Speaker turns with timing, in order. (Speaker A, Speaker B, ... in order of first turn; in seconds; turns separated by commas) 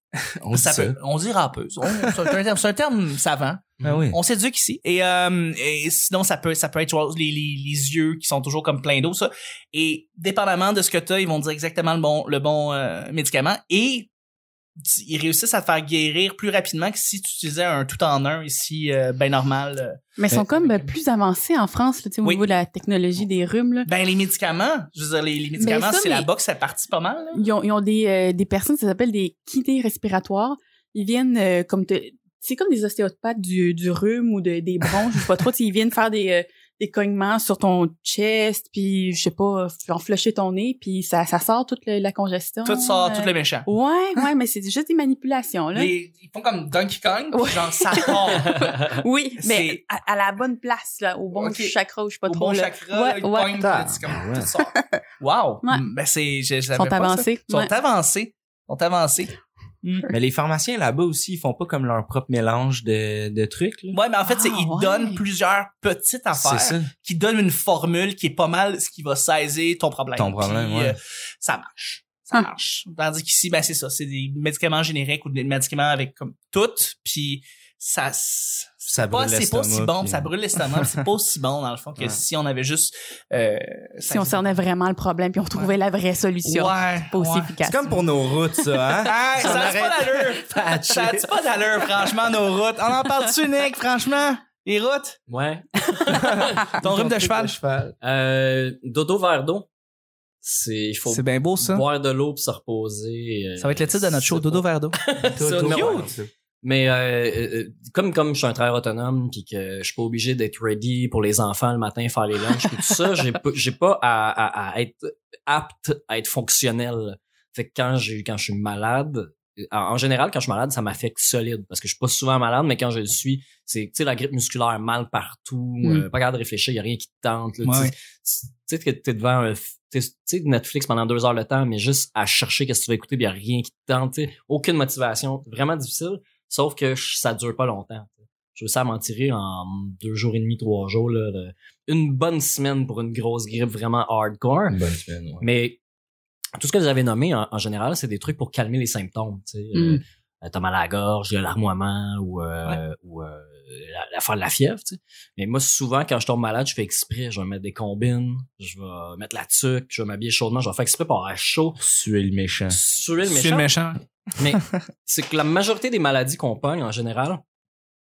Speaker A: 0.2-1.0, Speaker B: 0.5-14.1, Speaker A: 1.9-2.3, Speaker A: 3.8-4.2, Speaker B: 14.8-20.8, Speaker C: 20.2-23.9, Speaker B: 23.9-27.4, Speaker C: 25.6-26.3, Speaker C: 27.3-45.9, Speaker B: 42.6-43.7, Speaker B: 45.8-49.8, Speaker C: 47.3-53.8, Speaker B: 51.3-51.8, Speaker B: 52.3-60.1, Speaker A: 53.6-54.5, Speaker C: 54.7-55.0, Speaker C: 56.7-57.7, Speaker A: 60.1-64.0, Speaker B: 63.9-84.5, Speaker C: 64.2-65.2, Speaker A: 66.3-66.9, Speaker A: 70.2-71.0, Speaker A: 78.9-81.0, Speaker C: 84.1-88.0, Speaker B: 86.4-87.5, Speaker A: 87.6-91.3, Speaker B: 89.0-95.2, Speaker D: 95.3-96.7, Speaker B: 96.3-97.5, Speaker A: 96.7-98.0, Speaker D: 98.0-99.7, Speaker D: 100.4-106.1, Speaker B: 101.1-101.8, Speaker B: 103.6-105.0, Speaker A: 105.3-106.3, Speaker B: 105.7-106.1, Speaker D: 106.6-144.8, Speaker B: 127.6-127.9, Speaker A: 144.7-145.5, Speaker D: 145.4-145.8, Speaker D: 146.6-161.8, Speaker C: 149.8-150.0, Speaker A: 161.8-162.8, Speaker D: 162.7-163.7, Speaker B: 163.3-164.6, Speaker D: 164.4-167.4